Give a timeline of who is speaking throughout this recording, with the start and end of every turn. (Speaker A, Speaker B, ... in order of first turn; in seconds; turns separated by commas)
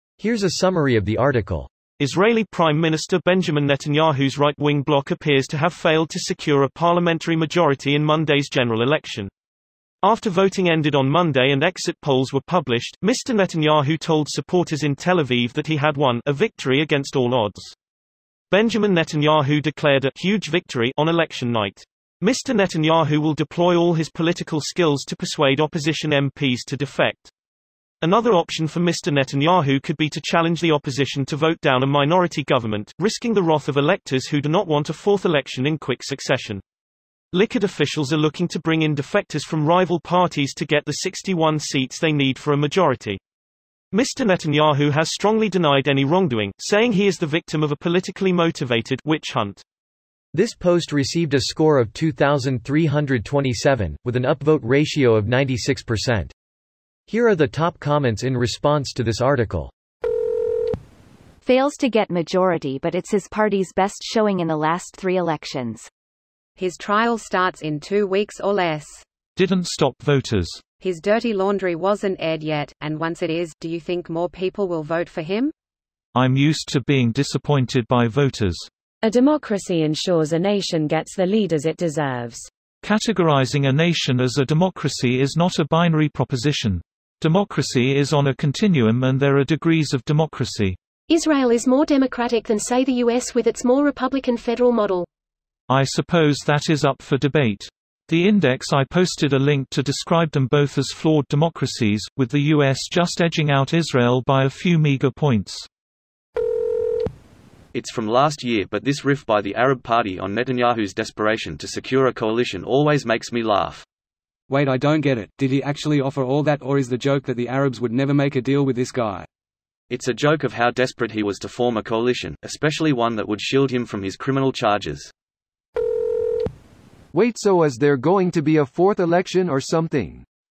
Speaker A: 0.2-1.7, Speaker B: 2.0-9.3, Speaker B: 10.0-17.7, Speaker B: 18.5-27.3, Speaker B: 28.0-36.6, Speaker B: 37.3-43.2, Speaker B: 43.9-49.6, Speaker A: 50.3-56.3, Speaker A: 57.1-59.7, Speaker C: 61.4-65.9, Speaker D: 66.6-69.0, Speaker E: 69.3-70.6, Speaker D: 70.8-75.5, Speaker E: 76.1-78.7, Speaker F: 79.0-82.5, Speaker E: 82.8-90.8, Speaker G: 91.1-95.1, Speaker E: 95.7-105.7, Speaker H: 107.7-113.8, Speaker I: 114.5-119.2, Speaker H: 119.9-125.1, Speaker J: 127.1-130.2